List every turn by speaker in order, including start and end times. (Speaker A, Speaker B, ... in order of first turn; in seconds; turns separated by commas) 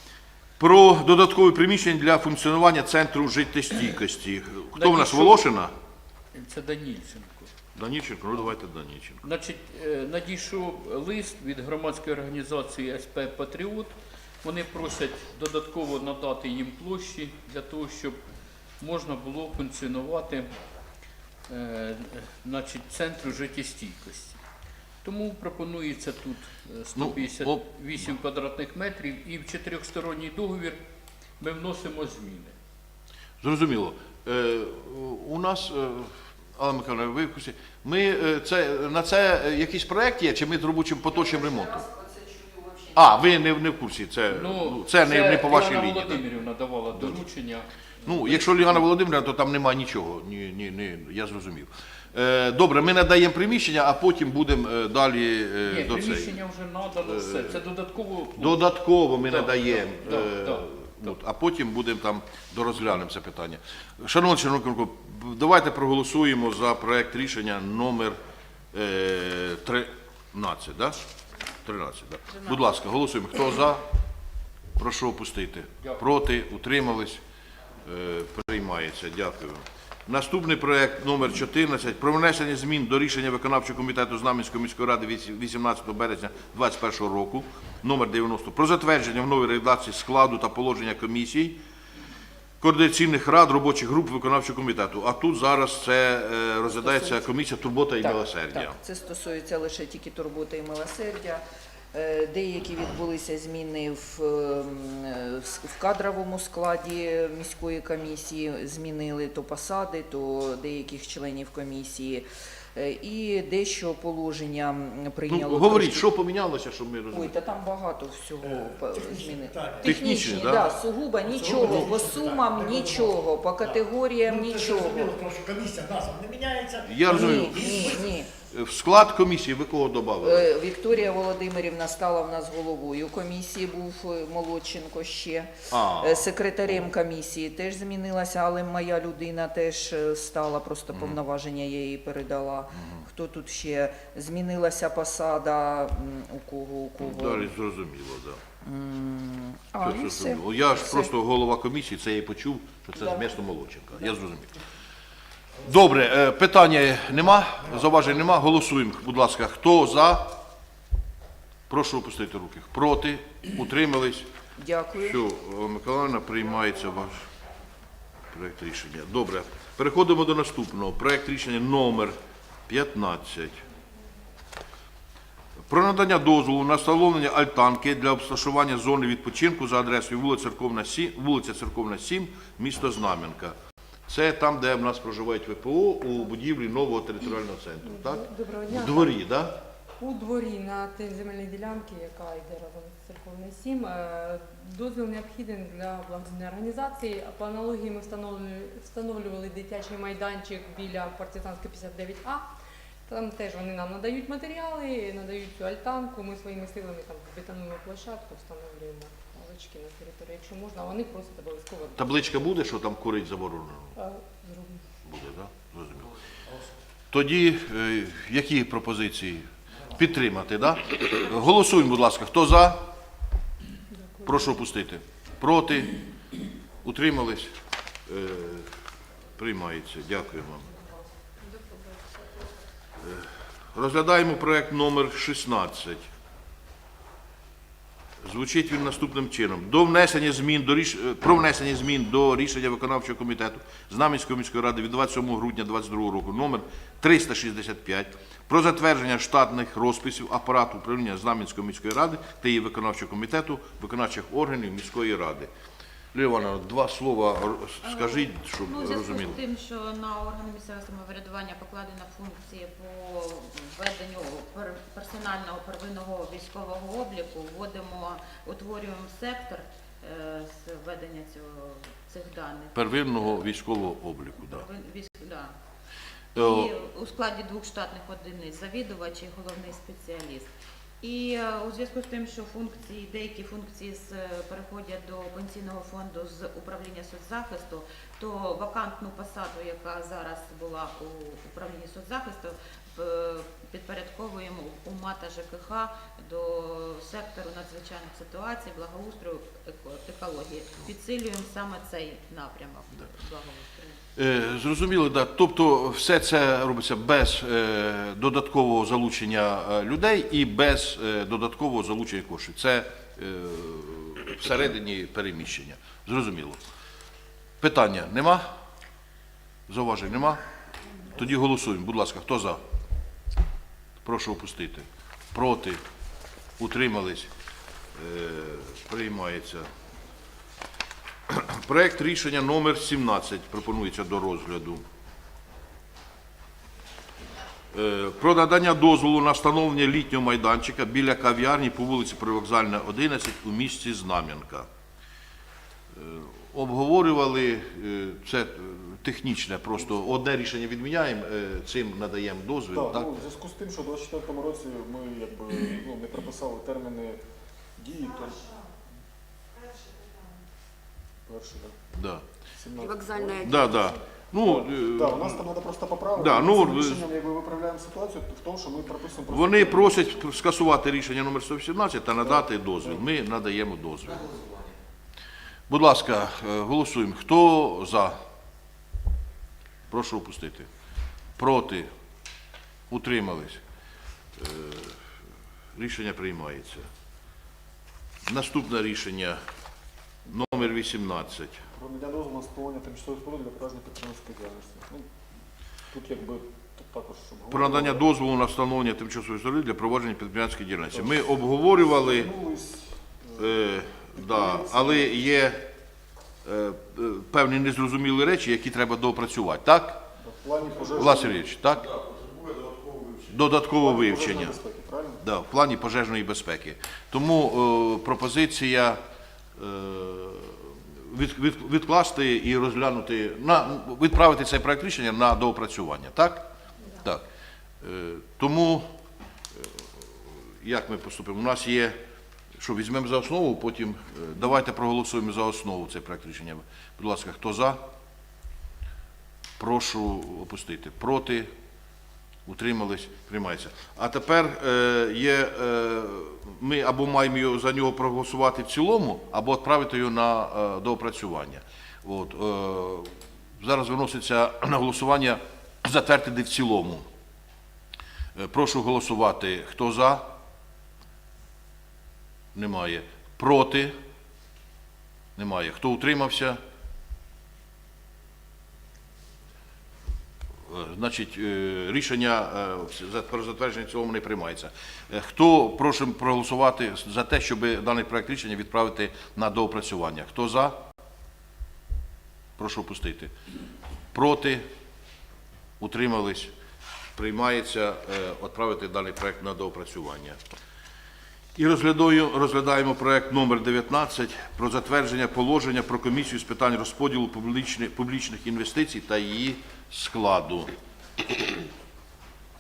Speaker A: 0.6-5.7, Speaker B: 4.7-5.5, Speaker B: 6.3-7.5, Speaker A: 7.8-9.2, Speaker B: 9.2-18.2, Speaker B: 18.8-20.5, Speaker B: 21.5-24.4, Speaker B: 25.0-30.8, Speaker A: 27.0-27.6, Speaker B: 31.4-32.5, Speaker A: 33.4-41.9, Speaker C: 41.1-43.1, Speaker A: 43.0-46.2, Speaker B: 44.3-48.9, Speaker A: 47.0-47.2, Speaker A: 48.0-56.4, Speaker B: 55.6-61.1, Speaker A: 57.0-57.6, Speaker A: 58.4-68.2, Speaker A: 68.7-71.0, Speaker A: 71.6-73.8, Speaker D: 72.3-72.7, Speaker A: 74.8-77.2, Speaker A: 77.8-91.6, Speaker A: 92.6-98.8, Speaker C: 96.7-97.2, Speaker C: 98.0-116.1, Speaker A: 115.3-117.3, Speaker C: 117.1-125.2, Speaker E: 118.4-128.2, Speaker A: 119.8-120.7, Speaker A: 126.9-128.0, Speaker C: 127.1-128.3, Speaker A: 128.5-130.5, Speaker C: 130.2-147.6, Speaker A: 135.7-136.7, Speaker A: 142.8-143.1, Speaker A: 147.0-148.4, Speaker C: 148.6-151.1, Speaker A: 149.8-154.5, Speaker C: 152.9-153.4, Speaker E: 155.6-156.0, Speaker A: 155.7-160.4, Speaker E: 157.1-158.3, Speaker A: 161.7-164.3, Speaker C: 164.6-165.2, Speaker A: 165.0-167.2, Speaker A: 168.3-172.2, Speaker A: 172.7-173.6, Speaker A: 175.7-183.6, Speaker A: 184.1-189.6, Speaker F: 187.8-189.2, Speaker F: 190.0-202.5, Speaker F: 203.1-212.5, Speaker A: 212.0-213.9, Speaker F: 214.0-214.8, Speaker A: 215.1-216.1, Speaker A: 217.1-222.9, Speaker F: 223.9-224.6, Speaker A: 224.2-225.9, Speaker A: 226.8-227.6, Speaker A: 228.1-228.7, Speaker A: 229.4-230.7, Speaker A: 233.0-236.1, Speaker A: 238.2-255.5, Speaker A: 256.1-259.4, Speaker D: 257.8-273.5, Speaker A: 272.7-274.7, Speaker D: 274.4-275.5, Speaker A: 276.4-276.7, Speaker D: 276.4-304.0, Speaker A: 304.2-316.6, Speaker A: 317.6-318.5, Speaker A: 319.7-320.4, Speaker A: 321.1-322.6, Speaker A: 324.0-325.8, Speaker A: 326.6-327.3, Speaker A: 327.9-329.7, Speaker A: 331.3-334.8, Speaker A: 337.7-344.7, Speaker A: 345.9-353.1, Speaker G: 352.7-357.2, Speaker G: 357.8-358.6, Speaker G: 361.3-361.8, Speaker A: 361.9-362.2, Speaker G: 362.5-363.8, Speaker A: 363.4-365.5, Speaker G: 364.4-370.0, Speaker A: 366.2-367.1, Speaker A: 369.3-374.3, Speaker G: 372.3-373.0, Speaker A: 375.7-378.2, Speaker A: 379.9-380.7, Speaker A: 381.4-381.9, Speaker A: 382.9-383.6, Speaker A: 384.4-385.0, Speaker A: 385.8-386.9, Speaker A: 388.3-389.4, Speaker A: 390.3-391.6, Speaker G: 391.7-395.1, Speaker G: 395.9-398.1, Speaker A: 397.5-402.3, Speaker G: 401.7-403.6, Speaker A: 403.4-405.7, Speaker G: 404.1-405.1, Speaker A: 406.4-410.1, Speaker G: 410.2-411.4, Speaker A: 410.9-412.0, Speaker E: 412.4-412.8, Speaker A: 413.3-414.6, Speaker G: 413.8-415.2, Speaker A: 415.2-419.0, Speaker A: 419.6-427.2, Speaker A: 427.8-428.9, Speaker A: 429.6-432.0, Speaker A: 432.6-437.8, Speaker A: 439.6-441.5, Speaker A: 442.5-457.1, Speaker A: 458.4-460.3, Speaker A: 462.6-464.0, Speaker A: 465.4-466.6, Speaker A: 470.7-480.8, Speaker A: 482.6-483.3, Speaker A: 484.1-484.7, Speaker A: 485.8-486.5, Speaker A: 487.2-490.4, Speaker A: 491.6-500.7